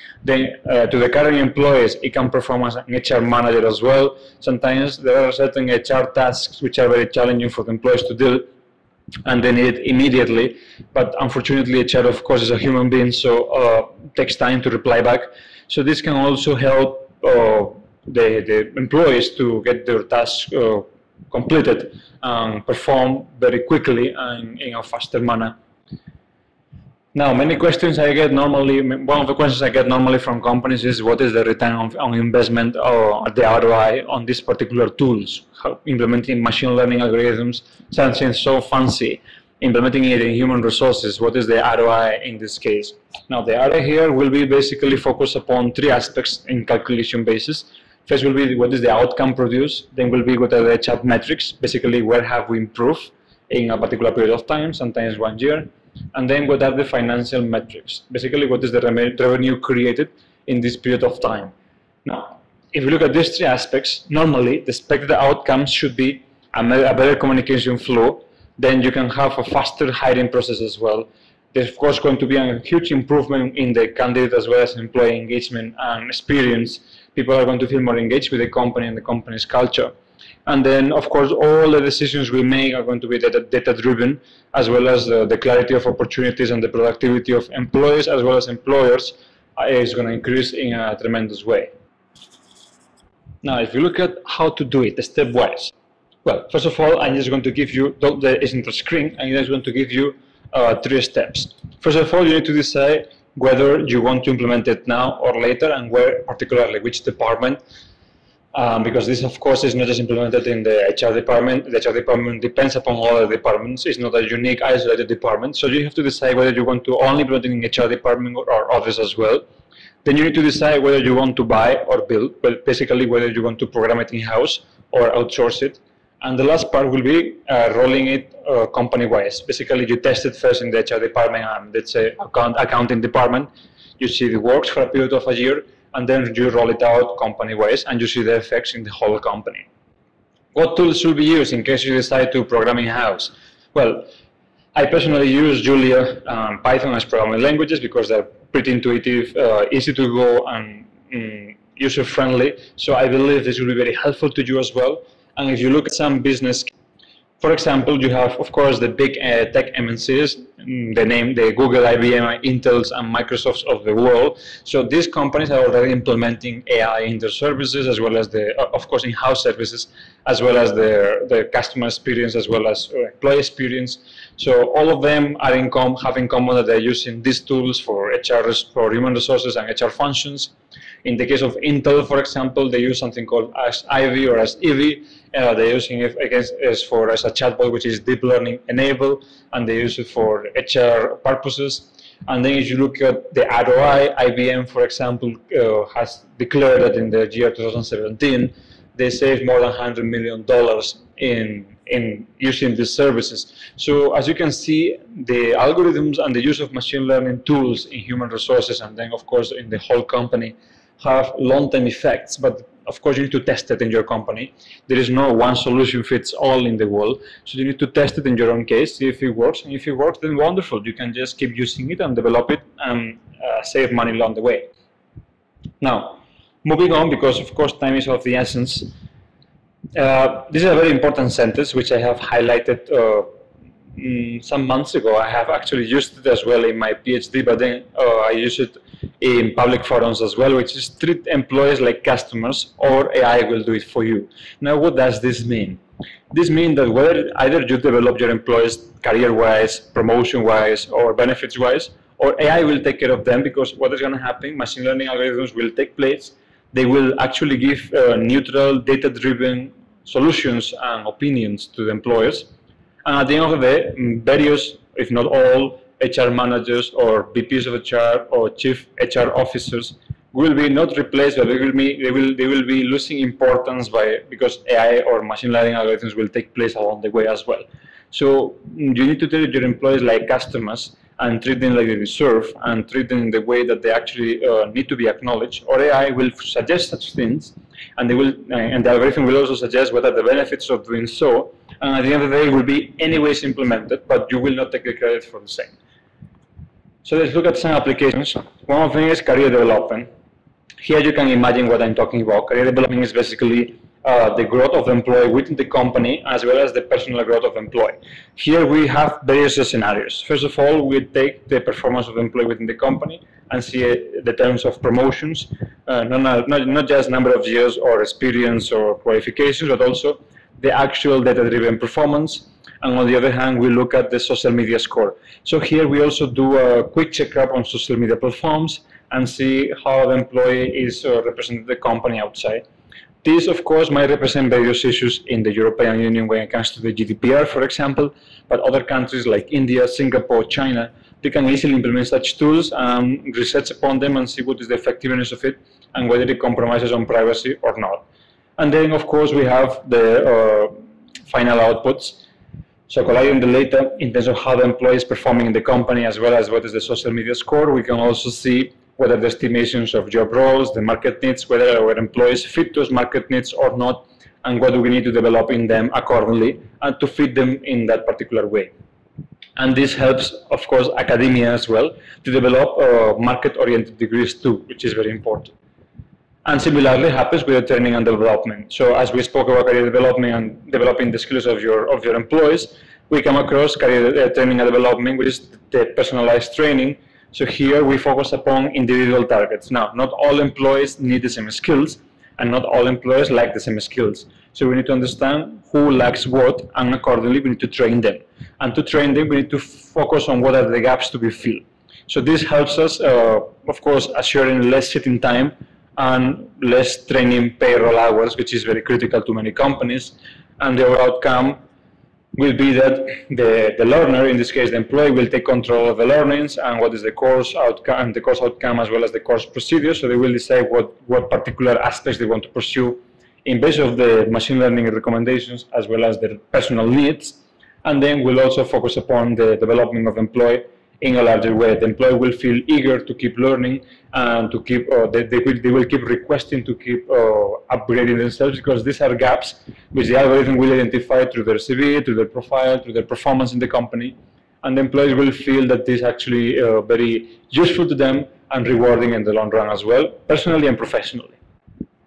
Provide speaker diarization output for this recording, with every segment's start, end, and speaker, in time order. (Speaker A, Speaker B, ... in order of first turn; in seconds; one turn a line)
Speaker A: 0.2-8.5
Speaker A: 9.2-25.6
Speaker A: 27.1-61.5
Speaker A: 62.0-79.9
Speaker A: 80.5-91.7
Speaker A: 93.4-95.7
Speaker A: 96.2-107.6
Speaker A: 108.5-119.4
Speaker A: 120.0-139.7
Speaker A: 140.5-144.1
Speaker A: 144.7-156.7
Speaker A: 157.4-180.5
Speaker A: 181.0-224.7
Speaker A: 225.8-228.9
Speaker A: 229.9-233.3
Speaker A: 233.9-245.8
Speaker A: 246.3-262.5
Speaker A: 263.0-295.7
Speaker A: 297.0-300.1
Speaker A: 300.8-332.6
Speaker A: 333.2-348.0
Speaker A: 348.6-350.7
Speaker A: 351.3-352.2
Speaker A: 352.9-368.7
Speaker A: 369.6-375.5
Speaker A: 376.4-411.6
Speaker A: 412.4-451.4